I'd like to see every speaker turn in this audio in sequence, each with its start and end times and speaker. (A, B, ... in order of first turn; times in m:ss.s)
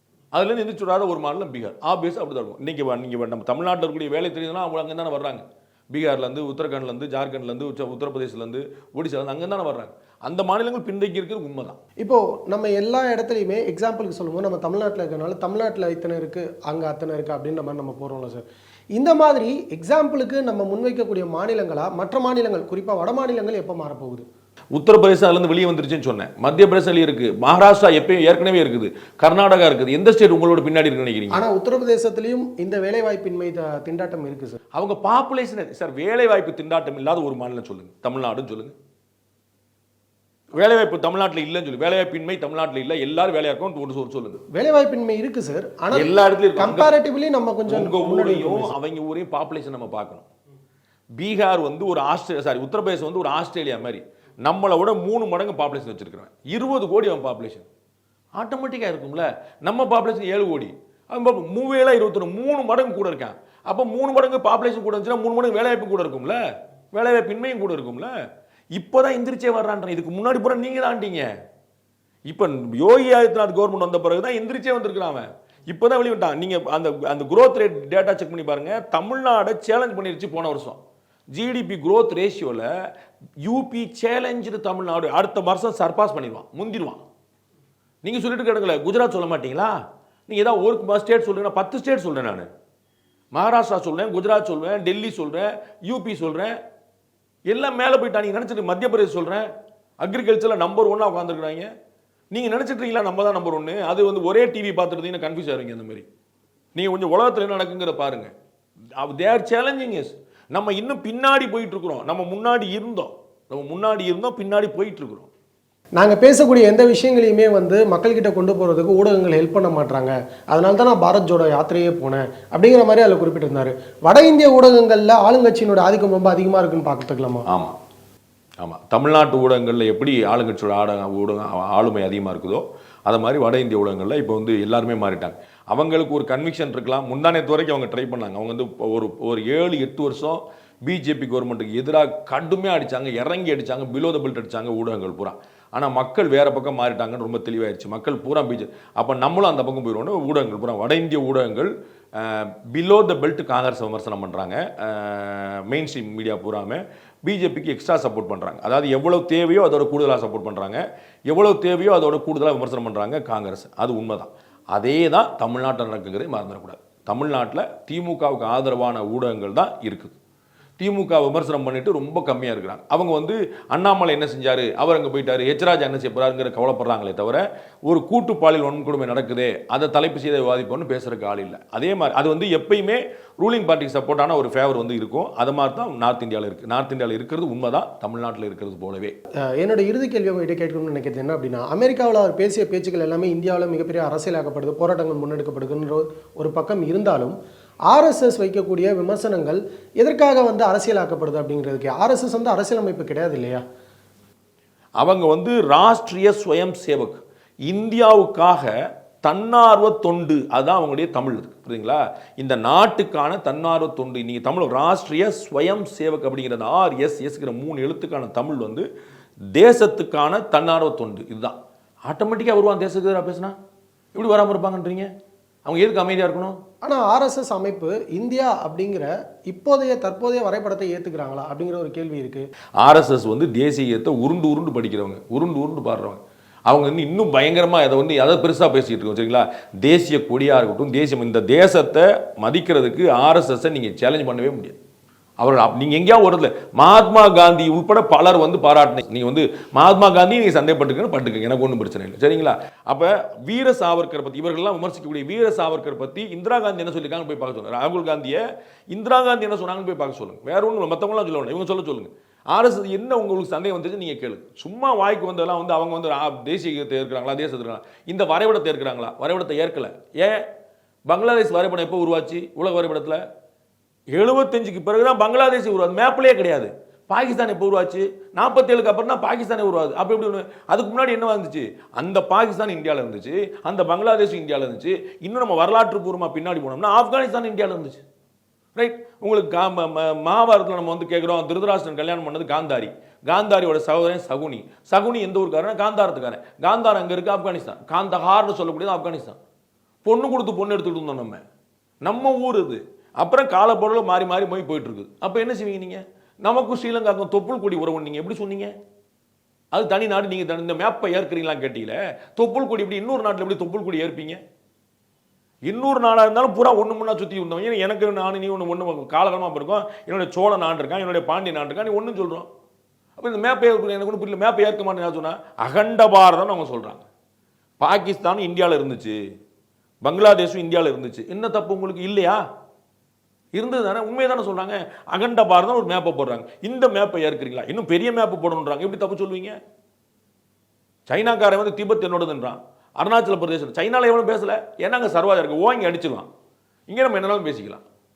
0:00.3-0:11.8 A
0:12.0-0:24.3 B
0:24.7-0:31.4 A
0:31.3-0:34.6 B
0:34.7-0:38.8 A
0:40.5-0:44.4 A
0:44.5-0:48.7 B
0:45.9-0:46.9 A
0:47.7-0:50.3 A
0:51.2-0:57.7 A
0:58.4-1:06.4 A
1:06.9-1:08.1 A
1:08.7-1:11.3 A
1:12.3-1:20.8 A
1:21.3-1:22.7 A
1:23.4-1:27.0 A
1:28.0-1:29.8 A
1:30.3-1:32.5 A
1:33.3-1:36.6 A
1:37.5-1:39.5 A
1:40.0-1:41.7 A
1:42.3-1:46.1 A
1:46.8-1:48.3 A
1:49.0-1:55.3 A
1:56.0-2:07.5 B
2:07.5-2:07.8 A
2:08.6-2:50.2 A
2:50.8-3:09.2 A
3:09.4-3:17.4 B
3:17.9-3:23.6 B
3:25.0-3:28.7 A
3:29.2-3:38.9 A
3:39.5-3:43.6 A
3:44.2-3:45.1 A
3:45.6-3:46.6 A
3:46.8-3:52.5 B
3:52.8-4:04.8 A
4:05.4-4:18.4 A
4:18.9-4:30.4 A
4:31.1-4:33.2 A
4:34.1-4:48.0 A
4:48.8-4:59.4 A
5:00.0-5:01.4 A
5:02.0-5:08.7 A
5:09.7-5:14.4 A
5:15.7-5:22.5 A
5:23.2-5:27.0 A
5:27.8-5:29.2 A
5:30.0-5:32.4 A
5:33.5-5:39.6 A
5:41.1-5:46.3 A
5:46.9-5:47.8 A